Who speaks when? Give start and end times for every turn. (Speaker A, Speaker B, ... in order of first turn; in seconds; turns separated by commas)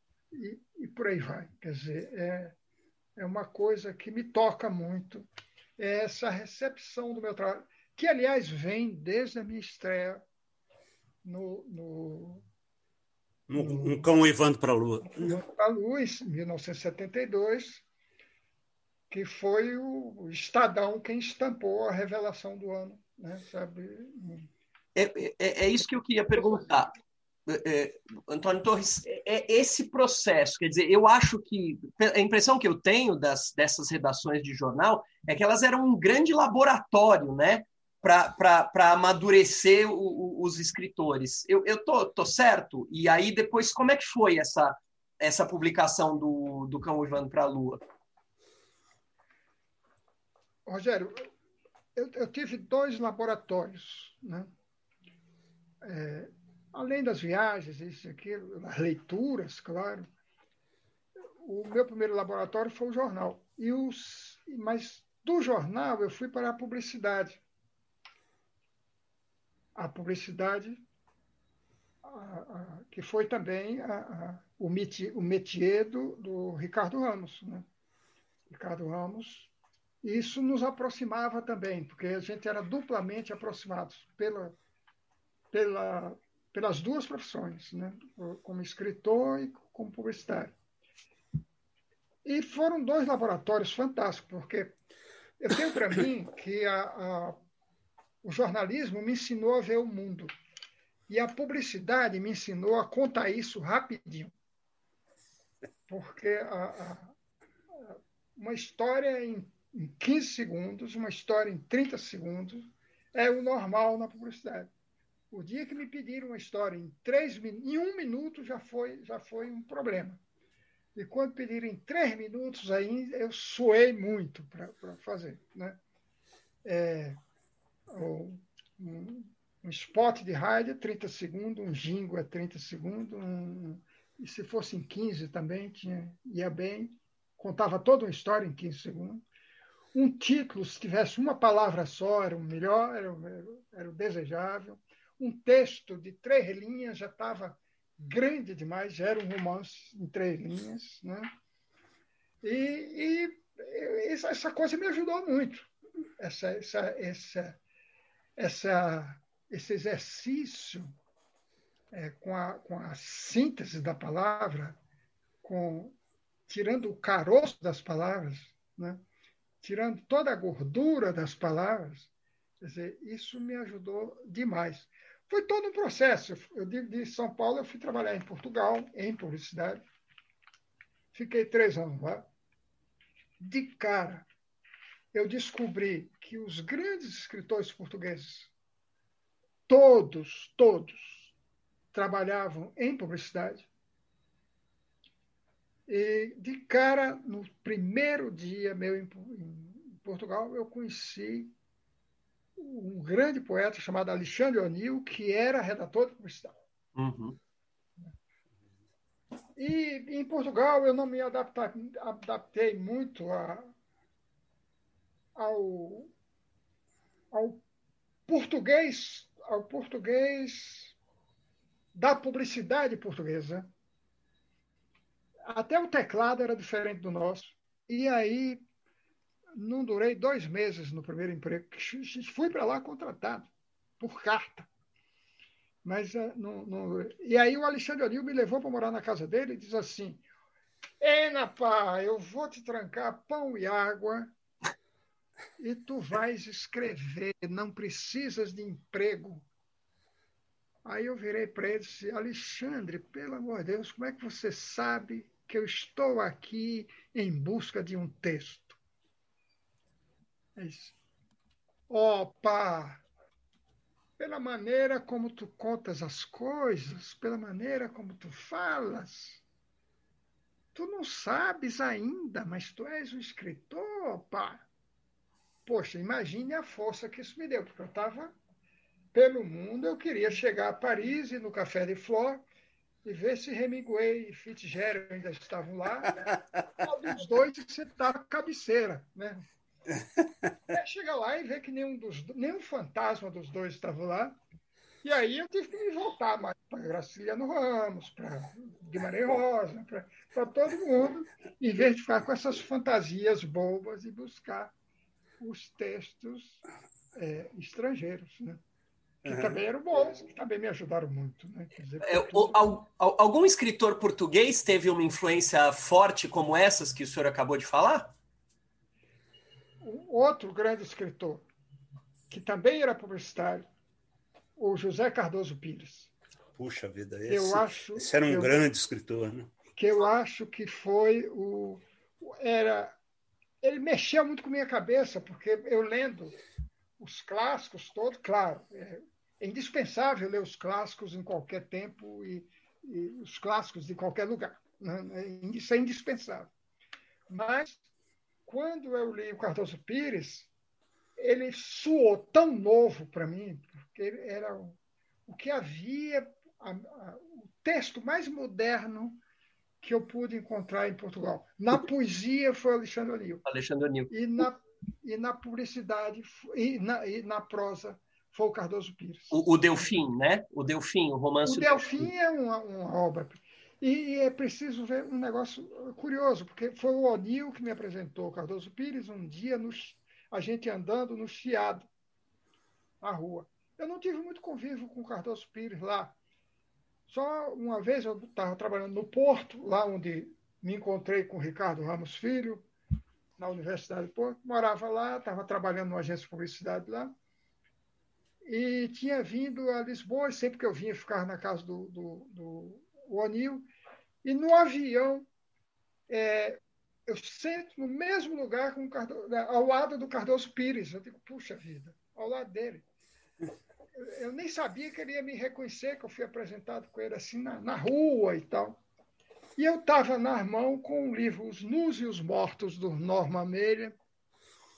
Speaker A: 0.3-2.5, Speaker A: 3.2-5.3, Speaker A: 5.8-10.2, Speaker A: 11.2-12.4, Speaker B: 13.5-15.4, Speaker A: 13.6-14.1, Speaker A: 15.1-17.8, Speaker A: 19.1-24.5, Speaker C: 24.9-26.9, Speaker C: 27.5-47.8, Speaker A: 50.7-51.3, Speaker A: 52.0-54.5, Speaker A: 55.8-60.1, Speaker A: 61.4-67.4, Speaker A: 69.8-70.8, Speaker A: 72.0-77.7, Speaker A: 78.5-79.5, Speaker A: 80.0-84.6, Speaker A: 85.5-90.5, Speaker A: 92.2-94.8, Speaker A: 95.4-97.4, Speaker A: 98.2-100.3, Speaker A: 101.1-104.3, Speaker A: 105.9-107.1, Speaker A: 107.7-114.7, Speaker A: 115.3-120.2, Speaker A: 121.0-125.8, Speaker A: 126.7-127.2, Speaker A: 127.9-139.2, Speaker A: 139.9-151.3, Speaker A: 152.4-157.6, Speaker A: 158.4-160.9, Speaker A: 161.9-164.8, Speaker A: 165.4-166.0, Speaker A: 166.5-169.0, Speaker A: 169.6-179.8, Speaker A: 181.1-182.3, Speaker A: 183.4-184.3, Speaker A: 185.1-188.5, Speaker A: 189.7-191.3, Speaker A: 191.9-193.7, Speaker A: 195.9-201.5, Speaker A: 202.6-206.5, Speaker C: 207.0-207.4, Speaker A: 209.6-213.7, Speaker A: 215.3-216.1, Speaker A: 217.3-217.6, Speaker A: 218.3-220.9, Speaker A: 221.9-223.7, Speaker A: 225.5-228.6, Speaker A: 229.6-234.7, Speaker A: 235.8-240.2, Speaker A: 241.0-244.3, Speaker A: 245.6-249.5, Speaker A: 250.8-258.8, Speaker A: 260.6-260.9, Speaker A: 261.9-263.0, Speaker A: 264.2-269.4, Speaker A: 270.8-274.6, Speaker A: 275.6-278.4, Speaker A: 279.1-282.4, Speaker A: 283.1-289.4, Speaker A: 290.7-294.4, Speaker A: 295.0-304.7, Speaker A: 305.4-306.6, Speaker A: 307.1-308.6, Speaker B: 309.2-309.6, Speaker A: 309.2-312.6, Speaker C: 312.0-318.1, Speaker A: 319.8-321.5, Speaker A: 322.3-323.7, Speaker A: 324.6-326.1, Speaker B: 326.6-329.5, Speaker A: 327.3-328.6, Speaker A: 329.8-333.0, Speaker A: 333.6-336.4, Speaker A: 337.0-346.5, Speaker A: 347.3-347.8, Speaker A: 348.5-350.5, Speaker A: 351.2-359.2, Speaker A: 359.8-363.4, Speaker C: 363.5-364.1, Speaker A: 364.1-369.8, Speaker C: 369.3-372.1, Speaker A: 371.4-381.9, Speaker A: 383.0-386.2, Speaker A: 387.1-392.7, Speaker A: 393.4-397.1, Speaker A: 398.4-403.7, Speaker A: 404.2-405.3, Speaker A: 406.1-412.9, Speaker A: 414.0-418.8, Speaker A: 419.6-423.9